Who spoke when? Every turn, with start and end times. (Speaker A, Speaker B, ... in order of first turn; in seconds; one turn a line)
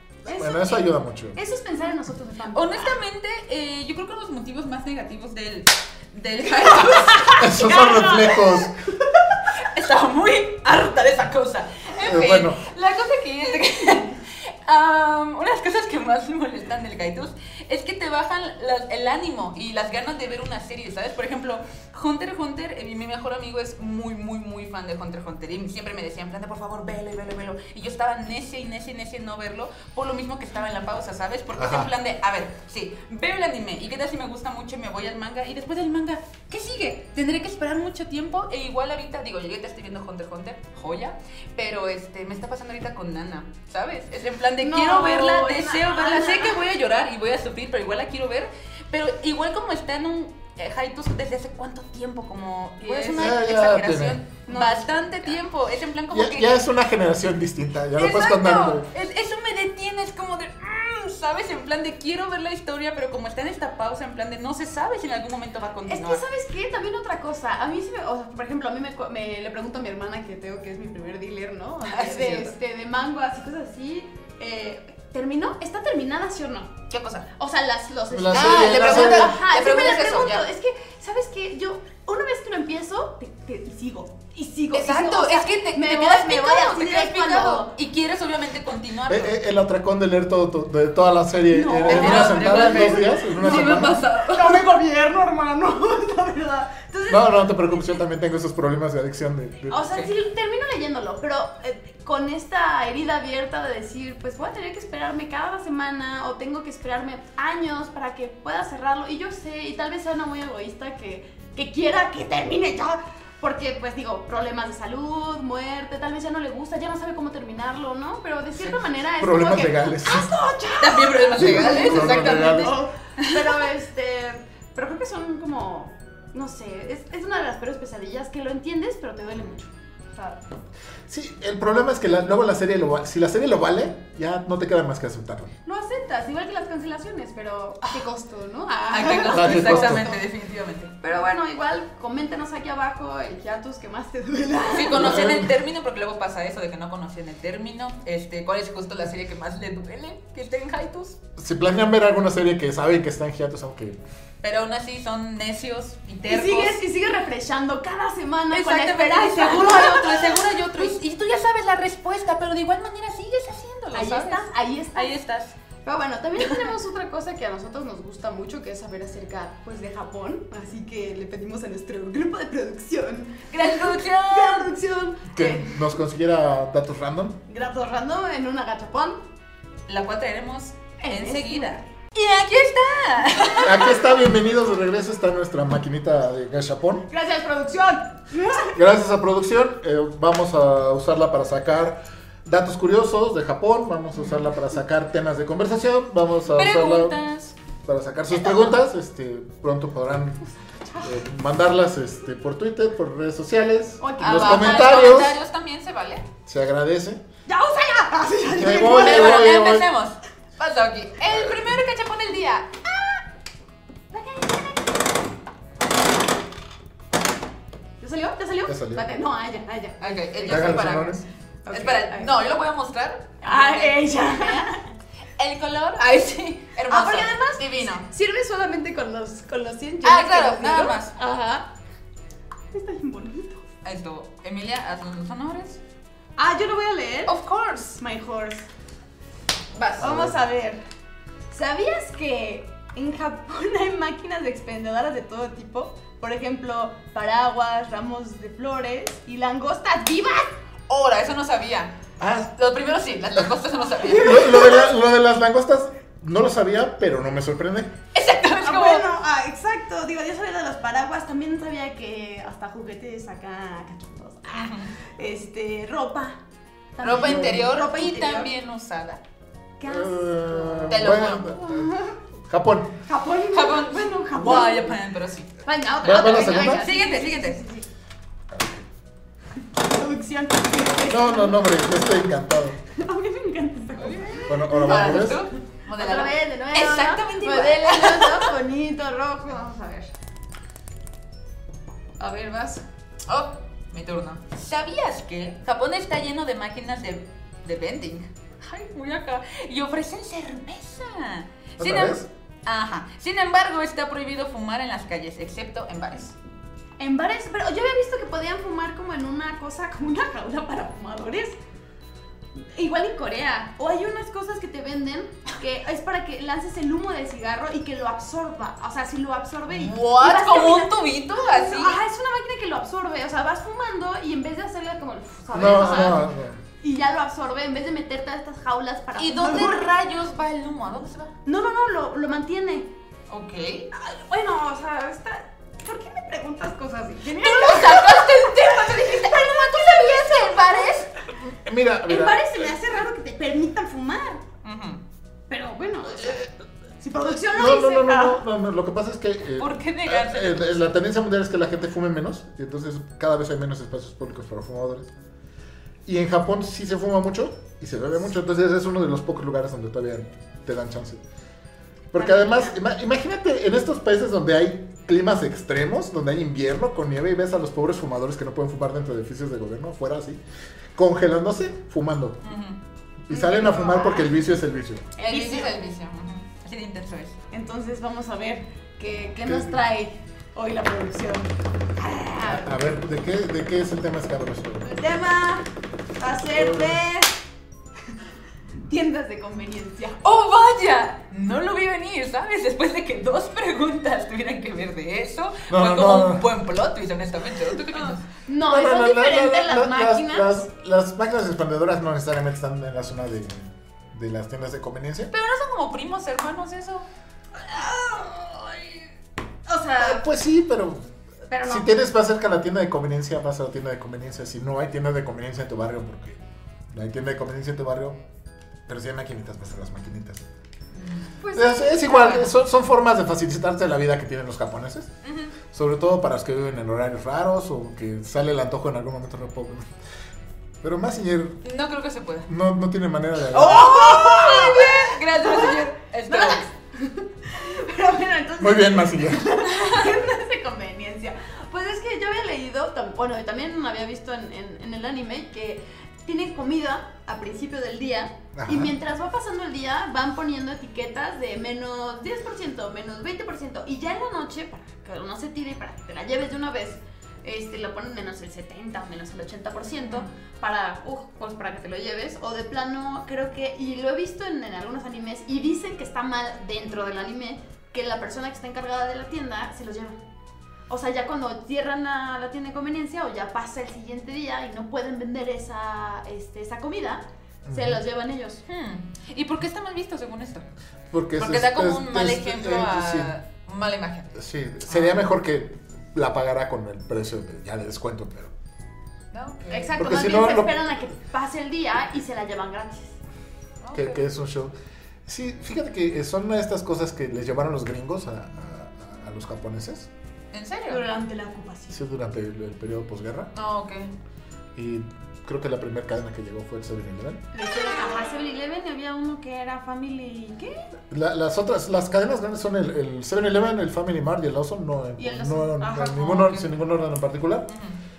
Speaker A: 0.2-3.0
Speaker B: 0.2-1.4
Speaker C: 2.5-7.8
Speaker A: 6.6-9.4
Speaker B: 7.3-8.7
Speaker C: 9.5-56.6
Speaker B: 12.0-12.6
Speaker B: 31.6-31.9
Speaker A: 44.6-46.6
Speaker A: 52.8-53.4
Speaker B: 53.1-54.2
Speaker A: 54.5-55.3
Speaker B: 56.1-58.9
Speaker C: 57.9-66.2
Speaker A: 65.8-76.7
Speaker C: 71.8-72.5
Speaker C: 76.9-77.3
Speaker A: 77.3-87.7
Speaker B: 78.1-79.3
Speaker C: 78.3-80.4
Speaker C: 84.7-89.3
Speaker B: 89.1-94.0
Speaker A: 91.5-97.5
Speaker C: 91.8-94.6
Speaker B: 97.1-99.8
Speaker A: 99.7-130.4
Speaker B: 118.6-120.3
Speaker C: 120.8-123.4
Speaker B: 121.3-122.8
Speaker B: 131.1-135.5
Speaker A: 135.6-140.2
Speaker C: 138.9-140.9
Speaker B: 139.1-140.1
Speaker A: 141.0-145.2
Speaker C: 144.7-151.2
Speaker B: 144.9-145.5
Speaker B: 151.4-154.0
Speaker C: 154.4-156.8
Speaker A: 156.3-160.9
Speaker C: 158.5-165.5
Speaker A: 163.9-165.1
Speaker A: 165.8-175.9
Speaker C: 166.4-166.7
Speaker C: 173.5-174.7
Speaker B: 175.3-177.4
Speaker A: 177.5-179.2
Speaker C: 179.9-184.0
Speaker A: 181.0-181.8
Speaker B: 183.6-187.1
Speaker A: 187.1-188.8
Speaker B: 188.7-197.2
Speaker C: 196.5-197.5
Speaker B: 197.8-200.4
Speaker B: 201.0-205.3
Speaker A: 204.0-205.3
Speaker C: 204.2-206.3
Speaker B: 206.4-207.2
Speaker A: 207.5-209.6
Speaker B: 208.5-209.9
Speaker C: 208.8-213.1
Speaker A: 214.1-215.1
Speaker A: 218.0-221.1
Speaker B: 218.7-219.0
Speaker C: 220.0-224.5
Speaker B: 220.4-221.2
Speaker A: 221.6-222.4
Speaker A: 223.4-224.9
Speaker C: 225.4-228.1
Speaker A: 226.9-231.7
Speaker C: 230.0-231.1
Speaker A: 232.7-233.6
Speaker C: 233.8-235.8
Speaker A: 236.4-238.7
Speaker C: 237.2-238.0
Speaker C: 239.8-240.1
Speaker A: 239.9-240.8
Speaker B: 240.0-240.4
Speaker A: 241.5-250.5
Speaker C: 250.9-251.9
Speaker B: 252.2-252.5
Speaker C: 252.5-254.7
Speaker B: 254.1-257.9
Speaker A: 254.1-254.9
Speaker C: 258.1-259.1
Speaker A: 258.6-266.4
Speaker C: 264.5-264.9
Speaker A: 266.9-268.5
Speaker C: 267.0-269.2
Speaker A: 269.8-272.1
Speaker B: 269.9-271.9
Speaker C: 270.9-271.6
Speaker B: 272.4-273.0
Speaker A: 273.1-274.9
Speaker C: 273.5-275.5
Speaker A: 275.6-277.9
Speaker B: 276.0-276.8
Speaker C: 276.6-277.6
Speaker B: 278.5-278.8
Speaker A: 279.7-281.8
Speaker B: 281.1-282.8
Speaker A: 282.9-290.1
Speaker C: 284.0-288.5
Speaker B: 284.5-285.4
Speaker A: 292.2-292.8
Speaker C: 293.3-306.3
Speaker B: 301.8-302.3
Speaker A: 307.0-311.6
Speaker A: 312.7-329.9
Speaker C: 319.7-322.0
Speaker B: 325.5-326.6
Speaker C: 325.7-326.1
Speaker C: 329.2-331.3
Speaker A: 331.4-332.9
Speaker C: 333.3-333.9
Speaker A: 333.9-341.1
Speaker C: 337.4-341.1
Speaker B: 341.3-342.7
Speaker A: 342.1-344.4
Speaker C: 344.6-345.0
Speaker A: 345.5-346.4
Speaker B: 346.2-346.5
Speaker A: 347.0-348.4
Speaker B: 347.3-355.1
Speaker C: 349.6-350.8
Speaker B: 356.1-361.2
Speaker B: 362.1-370.4
Speaker A: 362.1-362.8
Speaker B: 370.9-372.4
Speaker C: 372.4-372.8
Speaker B: 373.3-375.1
Speaker A: 373.3-374.4
Speaker A: 375.1-375.8
Speaker C: 375.2-377.3
Speaker A: 377.5-382.7
Speaker B: 379.4-379.8
Speaker B: 382.4-384.9
Speaker A: 384.8-387.4
Speaker B: 386.5-387.0
Speaker A: 388.9-390.2
Speaker C: 390.2-398.2
Speaker B: 395.7-396.4
Speaker A: 397.9-400.6
Speaker B: 398.6-405.3
Speaker C: 405.3-407.1
Speaker A: 407.6-409.0
Speaker A: 409.7-410.2
Speaker B: 410.0-411.1
Speaker A: 411.5-411.9
Speaker B: 411.6-416.4
Speaker B: 416.9-418.2
Speaker B: 418.9-420.4
Speaker C: 421.0-421.4
Speaker A: 421.4-422.4
Speaker B: 421.5-425.1
Speaker C: 422.1-422.4
Speaker C: 425.2-425.5
Speaker B: 425.7-429.9
Speaker B: 430.8-431.6
Speaker C: 431.6-432.5
Speaker B: 432.5-434.0
Speaker C: 433.5-436.6
Speaker A: 433.5-470.2
Speaker B: 438.6-439.5
Speaker C: 439.6-440.1
Speaker B: 448.5-448.9
Speaker A: 470.9-478.6
Speaker B: 477.6-478.0
Speaker C: 478.7-480.6
Speaker B: 481.1-483.3
Speaker C: 481.4-484.3
Speaker B: 484.3-488.5
Speaker C: 484.9-485.2
Speaker C: 489.3-490.1
Speaker A: 489.7-493.1
Speaker B: 490.0-490.8
Speaker C: 493.8-494.2
Speaker B: 493.9-494.7
Speaker B: 495.2-500.1
Speaker C: 500.5-501.0
Speaker A: 500.9-502.0
Speaker B: 501.9-503.5
Speaker C: 503.5-504.1
Speaker B: 504.7-507.4
Speaker A: 507.5-510.9
Speaker B: 511.1-517.7
Speaker A: 515.2-516.7
Speaker C: 517.7-518.0